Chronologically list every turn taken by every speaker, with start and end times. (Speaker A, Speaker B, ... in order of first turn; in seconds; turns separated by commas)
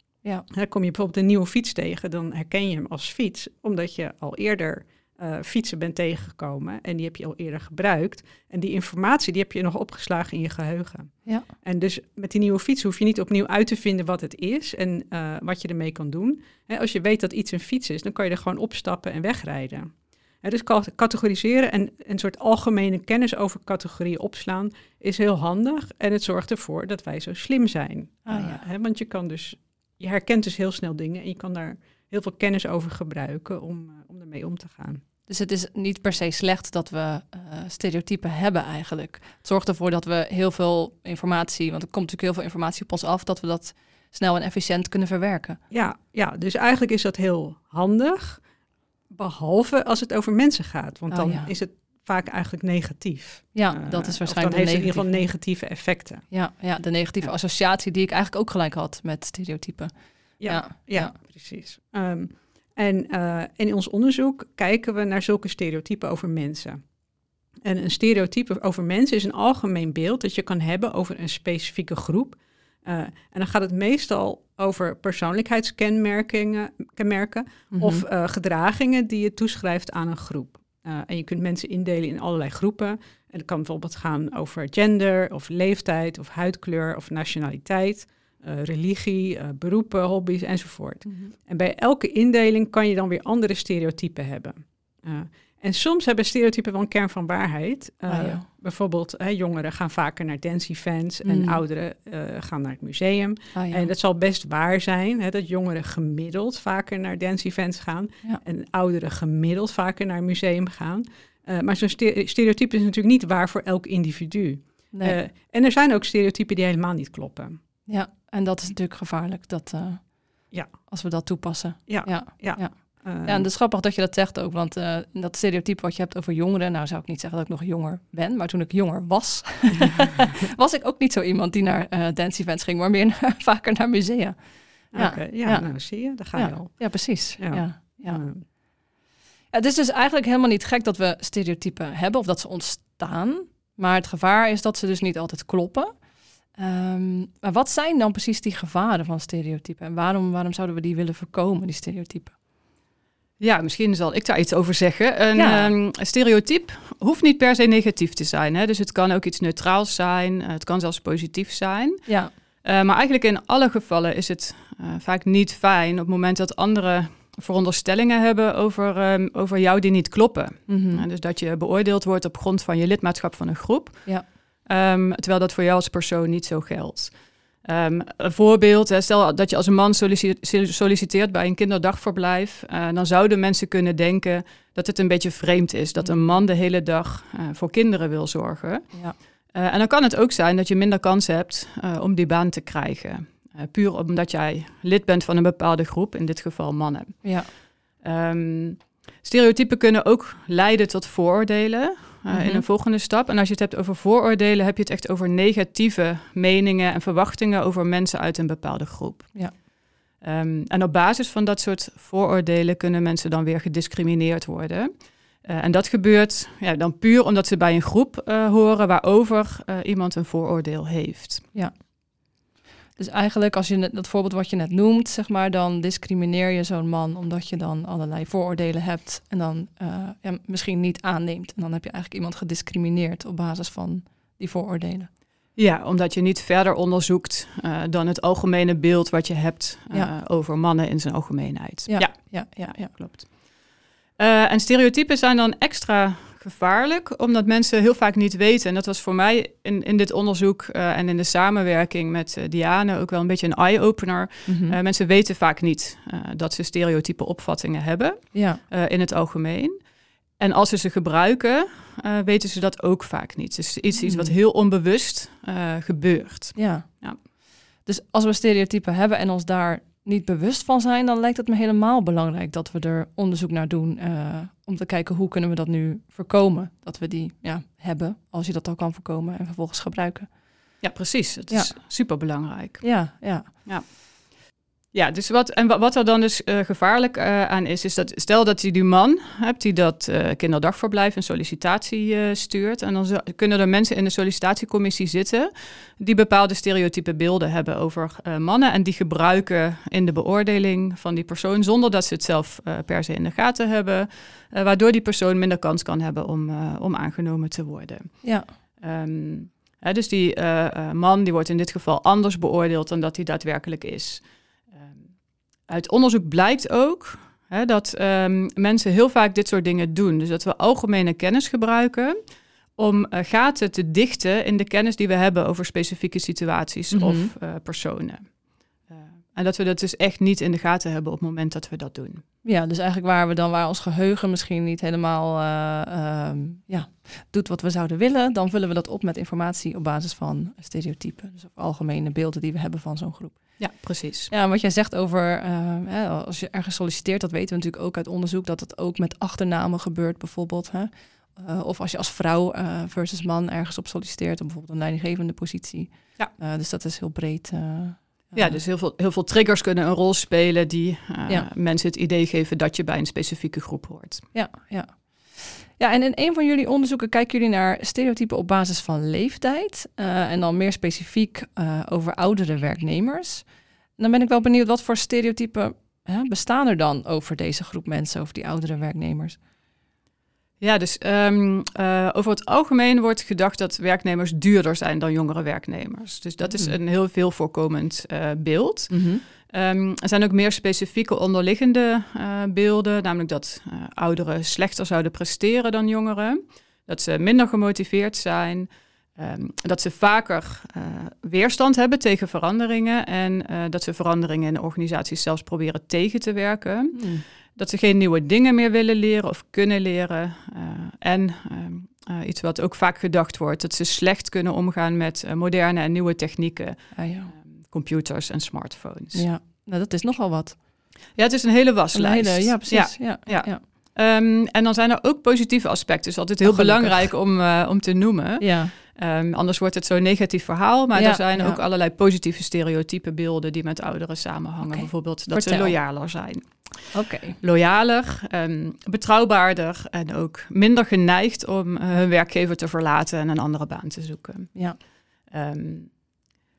Speaker A: 0.5-35.0, Speaker B: 28.3-28.6, Speaker B: 35.3-45.6, Speaker A: 45.7-48.4, Speaker A: 49.1-56.2, Speaker B: 51.1-51.5, Speaker B: 53.5-55.2, Speaker B: 56.3-61.1, Speaker A: 60.4-66.8, Speaker A: 67.6-117.6, Speaker B: 77.7-78.0, Speaker B: 91.0-91.3, Speaker B: 98.1-98.5, Speaker B: 101.2-101.6, Speaker B: 103.5-103.9, Speaker B: 114.9-115.2, Speaker B: 117.9-138.2, Speaker A: 121.9-123.5, Speaker A: 134.9-138.4, Speaker B: 139.5-152.3, Speaker C: 153.4-209.7, Speaker B: 155.3-155.7, Speaker B: 162.1-162.3, Speaker B: 170.7-171.0, Speaker B: 186.0-186.3, Speaker B: 197.2-197.5, Speaker B: 202.3-202.6, Speaker C: 210.2-221.5, Speaker B: 222.9-235.1, Speaker C: 235.6-267.2, Speaker B: 241.9-242.9, Speaker B: 254.5-254.8, Speaker B: 258.3-258.6, Speaker B: 264.0-264.3, Speaker B: 266.6-267.3, Speaker B: 267.8-280.8, Speaker C: 280.8-315.1, Speaker B: 281.5-282.2, Speaker B: 282.8-283.5, Speaker B: 308.2-308.5, Speaker C: 315.6-332.2, Speaker B: 326.9-327.3, Speaker B: 332.4-343.7, Speaker C: 343.6-344.3, Speaker B: 344.3-358.6, Speaker C: 358.3-364.3, Speaker B: 364.3-379.4, Speaker C: 380.6-419.3, Speaker B: 386.5-386.8, Speaker B: 388.9-389.2, Speaker B: 406.9-407.2, Speaker B: 416.9-417.3, Speaker B: 419.1-420.9, Speaker C: 421.1-445.9, Speaker B: 421.9-423.6, Speaker B: 426.4-427.1, Speaker B: 428.4-428.7, Speaker B: 430.9-431.6, Speaker B: 434.6-435.7, Speaker B: 436.9-437.4, Speaker B: 444.5-444.8